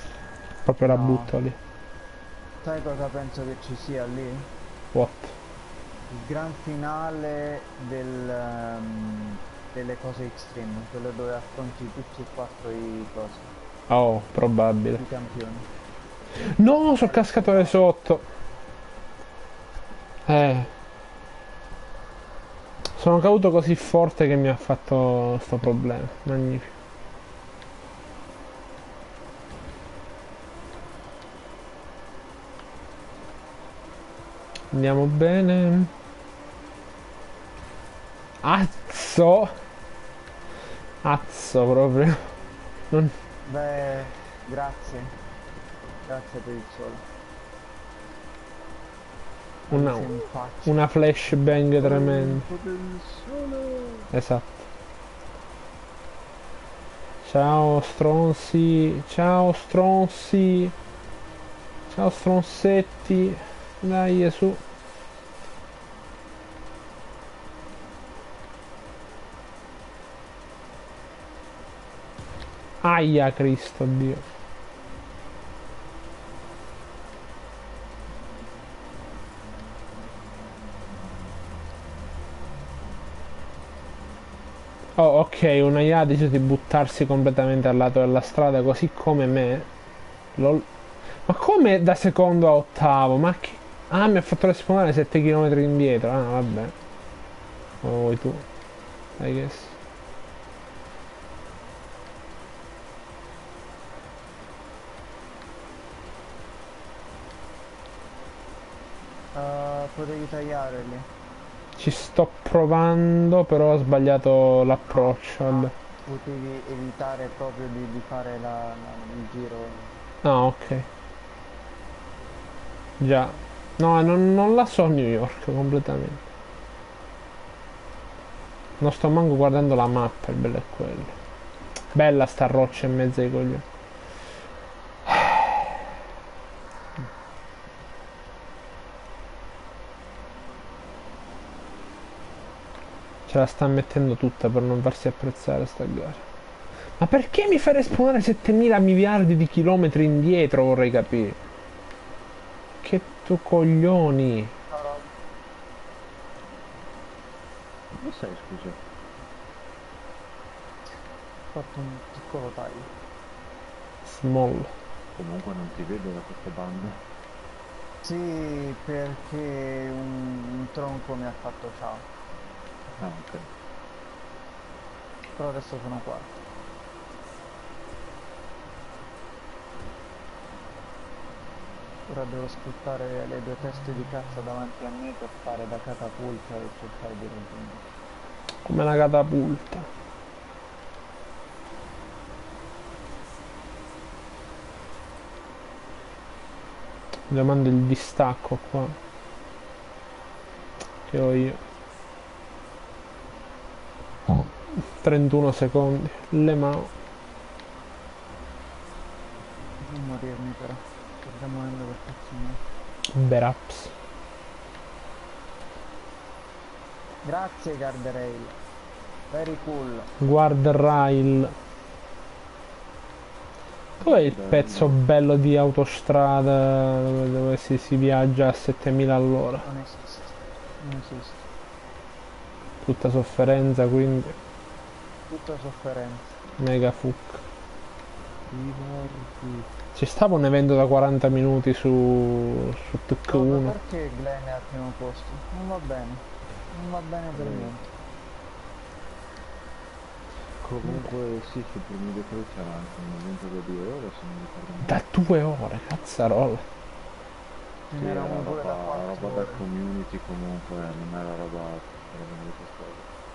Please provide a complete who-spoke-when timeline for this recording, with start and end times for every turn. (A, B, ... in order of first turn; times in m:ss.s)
0:00.6-0:01.6 A
0:00.8-0:01.4 B
0:02.6-0:04.5 B
0:04.9-0:05.4 A
0:06.1-0:13.5 B
0:13.9-0:15.0 A
0:15.0-0:15.7 B
0:16.3-0:18.2 A
0:17.0-0:17.8 B
0:20.3-0:20.7 A
0:23.0-0:26.7 A
0:34.7-0:35.9 A
0:38.4-0:39.5 A
0:41.0-0:42.3 A
0:43.5-0:45.2 B
0:46.0-0:47.0 B
0:49.7-0:50.8 B
0:49.7-0:50.1 A
0:50.6-0:52.5 A
0:51.8-0:54.1 C
0:54.1-0:54.6 A
0:57.2-1:00.8 A
1:01.9-1:04.6 A
1:12.8-1:14.2 A
1:25.0-1:29.7 A
1:30.4-1:30.7 A
1:31.2-1:36.8 A
1:37.8-1:38.5 A
1:39.2-1:39.8 A
1:49.3-1:51.1 B
1:51.8-1:55.7 A
1:54.9-2:00.0 B
2:00.2-2:00.9 A
2:03.0-2:06.2 A
2:08.8-2:11.2 A
2:11.9-2:13.6 A
2:15.0-2:15.7 A
2:23.3-2:26.2 A
2:27.0-2:31.4 A
2:32.8-2:34.5 A
2:34.7-2:35.1 B
2:37.9-2:38.8 C
2:41.5-2:42.9 B
2:44.0-2:44.7 A
2:45.2-2:47.0 C
2:48.0-2:52.1 B
2:53.0-2:53.5 C
2:55.4-2:56.4 B
3:02.1-3:07.8 B
3:08.6-3:09.9 A
3:17.3-3:19.0 A
3:21.1-3:21.6 A
3:24.3-3:26.9 A
3:29.8-3:32.6 B
3:33.1-3:33.9 A
3:37.2-3:38.6 B
3:39.3-3:40.1 B
3:40.2-3:41.6 A
3:44.0-3:45.0 C
3:44.0-3:49.7 A
3:49.6-3:51.5 B
3:52.8-3:54.4 A
3:55.3-3:56.4 B
3:56.6-3:57.4 A
3:58.5-3:59.7 C
3:59.9-4:03.7 A
4:03.3-4:07.8 B
4:07.4-4:07.7 C
4:10.6-4:15.0 C
4:14.9-4:16.6 A
4:17.9-4:19.6 B
4:18.0-4:23.1 C